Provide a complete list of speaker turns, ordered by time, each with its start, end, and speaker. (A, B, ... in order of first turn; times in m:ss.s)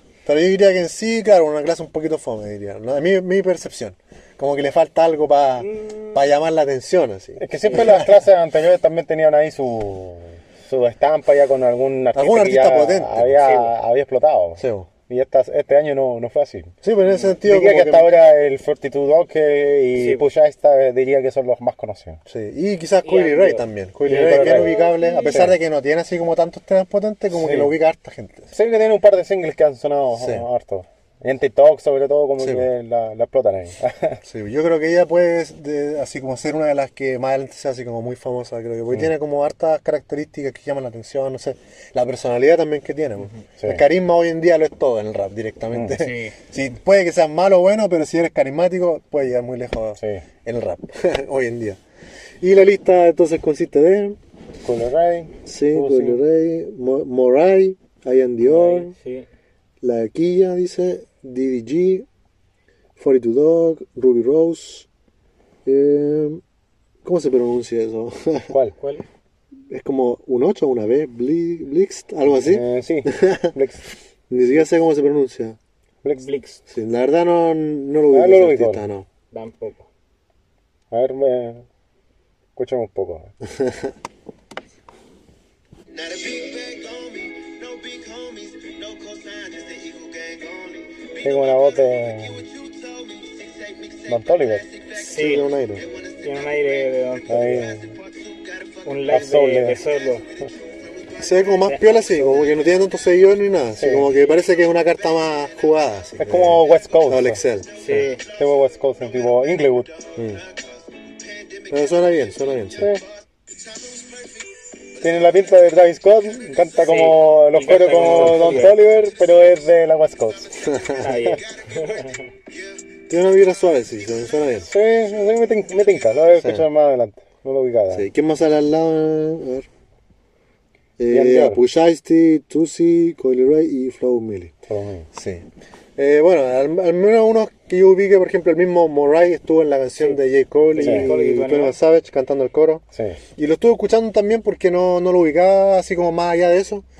0:00.2-0:08.2 A
0:05.6-0:06.2 B
0:07.4-0:16.7 C
0:12.1-0:13.4 A
0:13.4-0:13.7 B
0:14.6-0:14.9 A
0:16.8-0:18.1 A
0:17.1-0:17.3 B
0:17.4-0:22.2 C
0:19.9-0:20.3 B
0:22.3-0:28.5 A
0:23.0-0:25.5 B
0:24.1-0:25.5 C
0:27.3-0:27.7 C
0:28.5-0:34.2 C
0:30.2-0:30.4 A
0:32.4-0:32.7 A
0:34.2-0:51.8 A
0:45.9-0:46.4 B
0:52.4-0:54.2 A
0:54.6-0:56.2 C
0:55.4-0:58.9 A
0:58.4-0:59.3 B
0:59.8-1:02.0 A
1:03.0-1:04.9 A
1:05.6-1:06.4 A
1:07.0-1:08.5 A
1:08.8-1:09.0 B
1:09.7-1:13.5 A
1:12.4-1:13.8 C
1:14.3-1:15.6 A
1:16.0-1:16.3 C
1:16.2-1:16.6 B
1:16.7-1:19.1 A
1:18.1-1:18.8 C
1:19.3-1:19.8 B
1:20.9-1:21.6 C
1:22.6-1:23.3 C
1:23.4-1:23.9 A
1:26.0-1:30.8 A
1:31.2-1:32.5 C
1:34.1-1:34.6 C
1:34.9-1:35.5 B
1:35.1-1:35.8 A
1:36.2-1:37.6 B
1:37.3-1:37.9 C
1:38.8-1:40.2 B
1:39.1-1:39.8 C
1:41.2-1:47.7 A
1:41.7-1:42.4 B
1:43.8-1:44.1 C
1:46.2-1:50.2 C
1:47.8-1:48.2 B
1:51.7-1:53.0 A
1:55.0-2:01.4 C
1:56.8-1:58.8 B
2:00.6-2:01.1 A
2:01.0-2:02.2 B
2:03.1-2:04.7 A
2:04.7-2:08.1 C
2:07.9-2:09.7 A
2:11.0-2:14.5 A
2:11.1-2:11.6 C
2:14.7-2:15.1 C
2:15.1-2:22.8 A
2:20.7-2:21.8 B
2:20.8-2:21.1 C
2:23.4-2:26.8 A